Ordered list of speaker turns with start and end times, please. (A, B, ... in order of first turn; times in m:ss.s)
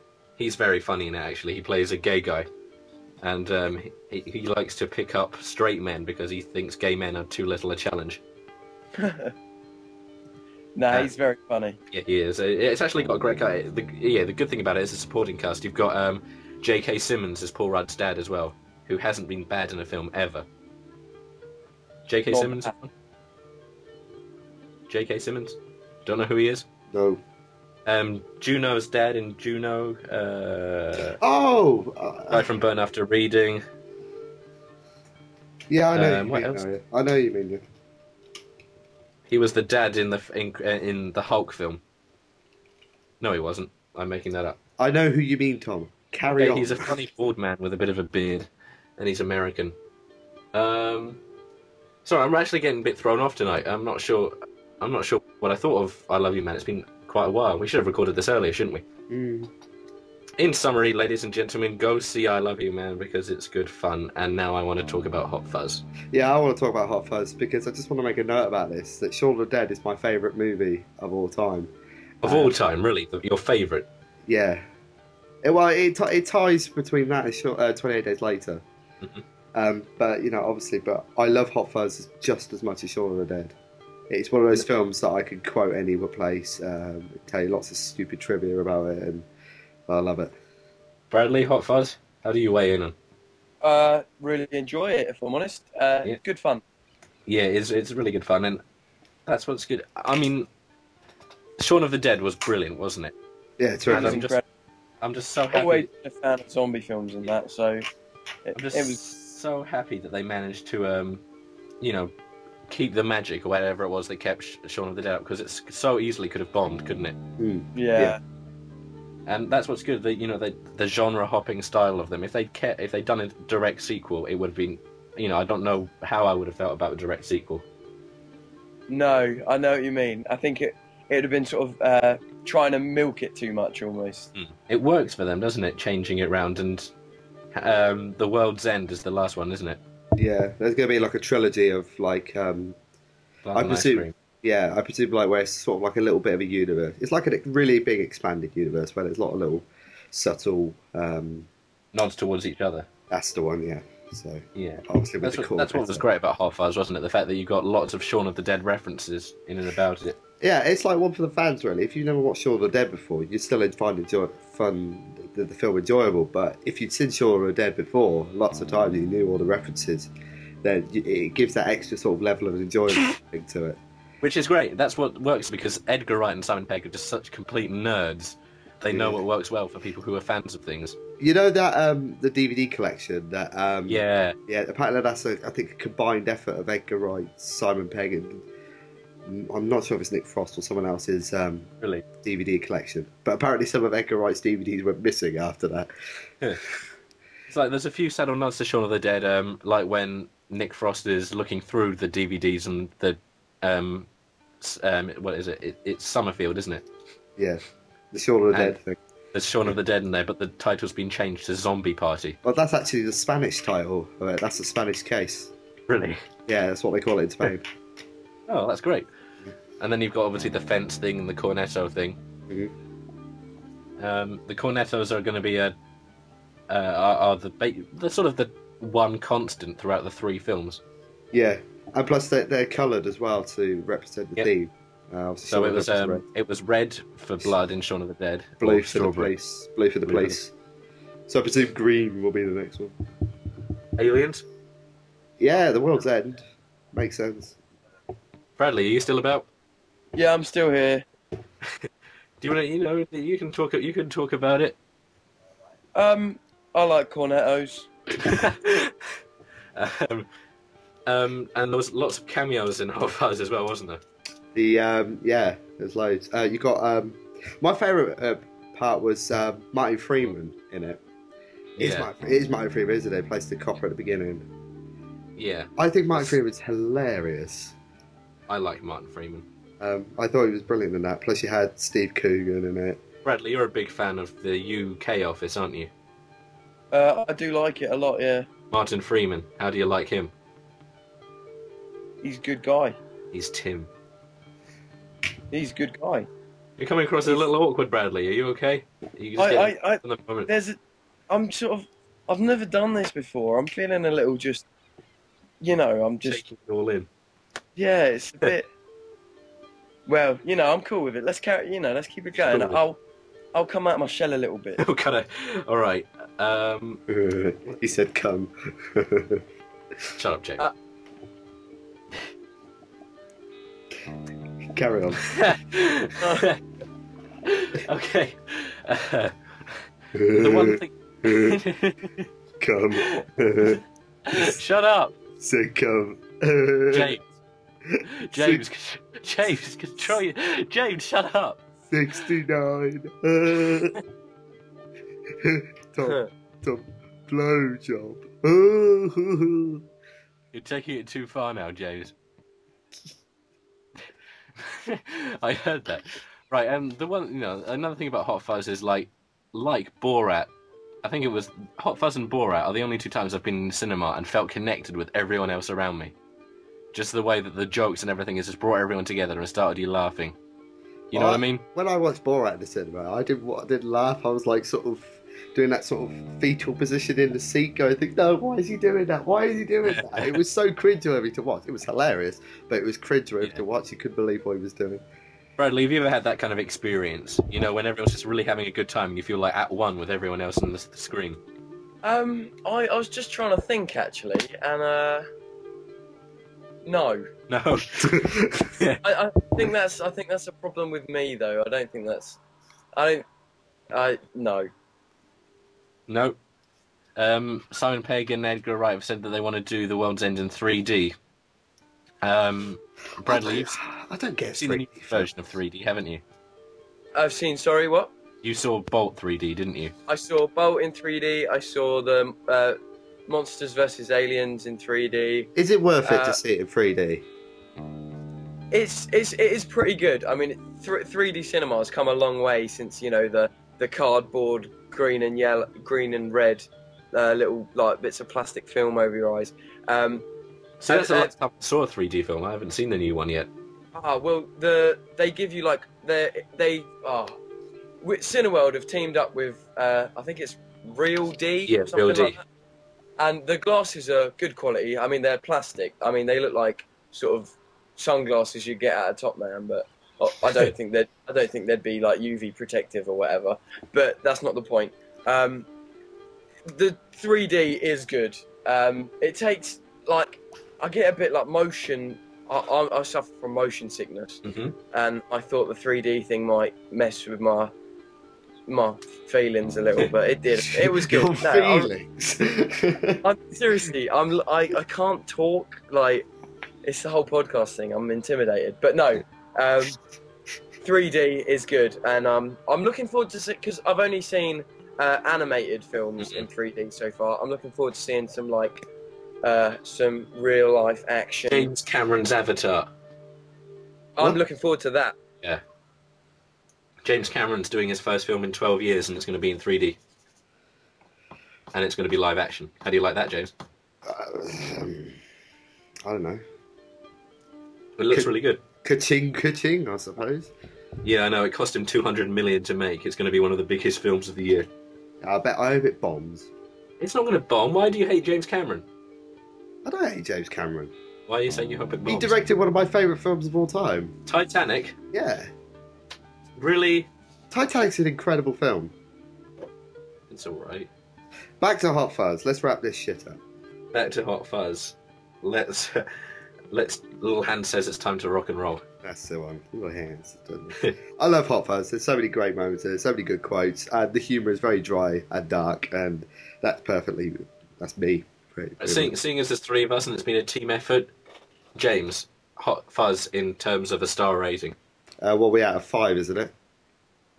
0:00.4-0:02.5 A
0:03.2-0:08.2 A
0:09.0-0:09.3 B
0:10.8-0:11.8 B
0:11.9-0:20.5 A
0:22.1-0:22.9 A
0:22.3-0:22.7 B
0:24.9-0:26.6 A
0:26.9-0:27.2 C
0:27.8-0:31.2 A
0:31.2-0:32.5 C
0:32.3-0:33.6 A
0:35.7-0:37.6 C
0:35.9-0:36.6 A
0:39.3-0:41.8 A
0:43.2-0:44.6 A
0:44.8-0:47.0 C
0:46.3-0:49.7 A
0:50.5-0:51.2 A
0:52.0-0:58.8 A
0:59.1-0:59.5 C
1:00.4-1:05.8 A
1:06.1-1:11.7 C
1:12.2-1:12.5 C
1:12.2-1:13.9 A
1:14.3-1:14.6 C
1:15.4-1:18.6 C
1:19.5-1:23.5 C
1:24.1-1:29.2 C
1:29.9-1:30.3 C
1:31.1-1:32.9 A
1:33.6-1:36.6 B
1:37.3-1:38.6 A
1:39.2-1:40.5 A
1:41.6-1:43.1 A
1:43.6-1:44.2 C
1:43.9-1:44.4 A
1:43.9-1:44.4 B
1:45.0-1:45.9 A
1:45.5-1:47.8 B
1:48.4-1:49.0 B
1:48.5-1:51.2 A
1:51.8-1:52.1 A
1:52.7-1:57.2 A
1:57.4-1:58.2 C
1:57.7-1:58.2 B
1:59.2-2:07.6 A
2:08.9-2:14.3 B
2:14.4-2:16.9 A
2:17.5-2:19.8 A
2:20.2-2:22.8 C
2:23.4-2:24.1 A
2:23.5-2:31.5 C
2:31.9-2:32.9 A
2:33.1-2:36.0 C
2:34.5-2:40.2 A
2:40.4-2:50.1 C
2:50.6-2:53.8 C
2:54.2-3:01.0 A
2:58.9-2:59.2 C
3:01.2-3:08.4 C
3:03.9-3:04.4 A
3:09.2-3:11.7 C
3:12.2-3:15.9 C
3:17.5-3:24.1 A
3:24.6-3:26.8 A
3:28.1-3:29.0 C
3:29.3-3:32.4 A
3:32.4-3:35.5 C
3:35.9-3:36.2 A
3:36.5-3:37.7 C
3:38.5-3:39.1 A
3:39.8-3:42.2 A
3:44.0-3:45.7 A
3:46.7-3:50.8 A
3:51.3-3:56.2 C
3:55.5-3:59.3 A
3:58.6-4:00.5 C
4:00.0-4:00.4 A
4:01.3-4:02.9 C
4:04.0-4:04.4 A
4:05.4-4:06.4 C
4:06.9-4:07.6 C
4:08.6-4:09.5 A
4:10.1-4:11.0 B
4:12.4-4:14.8 A
4:15.9-4:17.9 B
4:18.2-4:19.1 A
4:19.7-4:20.3 A
4:21.0-4:24.0 A
4:24.5-4:31.0 C
4:31.8-4:32.1 A
4:31.8-4:34.4 C
4:35.4-4:36.4 A
4:35.8-4:37.7 C
4:38.5-4:39.4 A
4:39.8-4:43.0 C
4:43.2-4:45.9 A
4:46.9-4:48.5 B
4:48.7-4:50.3 A
4:52.2-4:53.0 B
4:53.3-4:53.9 A
4:55.5-4:56.3 B
4:56.8-5:00.5 A
4:59.4-5:00.8 B
5:01.3-5:04.6 B
5:05.6-5:06.4 B
5:06.2-5:07.1 A
5:07.8-5:08.7 B
5:10.1-5:13.0 B
5:12.4-5:12.8 C
5:13.5-5:14.8 B
5:14.8-5:17.0 A
5:17.1-5:19.4 C
5:20.2-5:20.7 A
5:24.7-5:25.4 C
5:25.3-5:26.6 A
5:26.2-5:26.4 B
5:27.4-5:29.7 A
5:30.1-5:31.6 C
5:30.3-5:32.3 A
5:32.6-5:34.6 C
5:33.0-5:33.8 A
5:34.3-5:35.2 A
5:35.4-5:37.2 C
5:36.9-5:37.3 A
5:37.9-5:38.6 C
5:38.1-5:41.6 A
5:41.9-5:44.0 C
5:45.4-5:49.8 C
5:46.0-5:46.3 B
5:50.5-5:52.1 A
5:54.6-6:00.5 A
6:01.0-6:06.1 A
6:06.9-6:10.4 A
6:11.1-6:11.6 A
6:11.1-6:25.0 C
6:19.9-6:20.4 A
6:25.6-6:31.4 A
6:32.0-6:35.3 B
6:36.8-6:37.3 B
6:37.5-6:39.0 A
6:37.9-6:38.8 C
6:39.0-6:42.4 B
6:42.9-6:43.2 B
6:43.9-6:44.7 B
6:46.1-6:46.4 A
6:47.1-6:51.1 A
6:52.2-6:53.8 A
6:53.2-6:55.3 C
6:54.5-6:56.2 A
6:57.1-6:58.1 B
6:58.4-6:59.9 A
7:00.1-7:05.5 B
7:05.5-7:07.2 C
7:06.0-7:06.4 B
7:08.7-7:20.2 B
7:20.8-7:23.5 A
7:20.9-7:21.3 B
7:23.9-7:27.4 B
7:28.0-7:32.4 B
7:31.6-7:32.4 A
7:33.2-7:45.7 B
7:46.7-7:57.7 B
7:54.4-7:54.7 A
7:58.7-8:01.9 B
8:00.7-8:03.2 C
8:03.2-8:06.3 B
8:06.8-8:10.0 B
8:10.8-8:18.8 B
8:16.2-8:16.4 A
8:19.4-8:21.7 B
8:21.5-8:22.9 A
8:24.2-8:25.2 B
8:27.0-8:30.0 A
8:31.7-8:33.5 A
8:34.0-8:35.2 C
8:36.0-8:36.4 C
8:38.0-8:38.6 A
8:38.8-8:40.5 C
8:41.0-8:44.7 A
8:45.2-8:46.5 C
8:47.0-8:48.8 A
8:49.8-8:50.9 C
8:51.3-8:52.4 A
8:52.0-8:54.1 C
8:54.2-8:55.0 A
8:55.1-8:55.5 C
8:56.6-8:57.1 A
8:57.5-8:58.9 C
9:00.3-9:00.9 A
9:01.6-9:03.4 C
9:03.9-9:08.8 A
9:09.0-9:19.1 C
9:18.8-9:21.1 A
9:21.7-9:24.8 A
9:25.2-9:26.5 C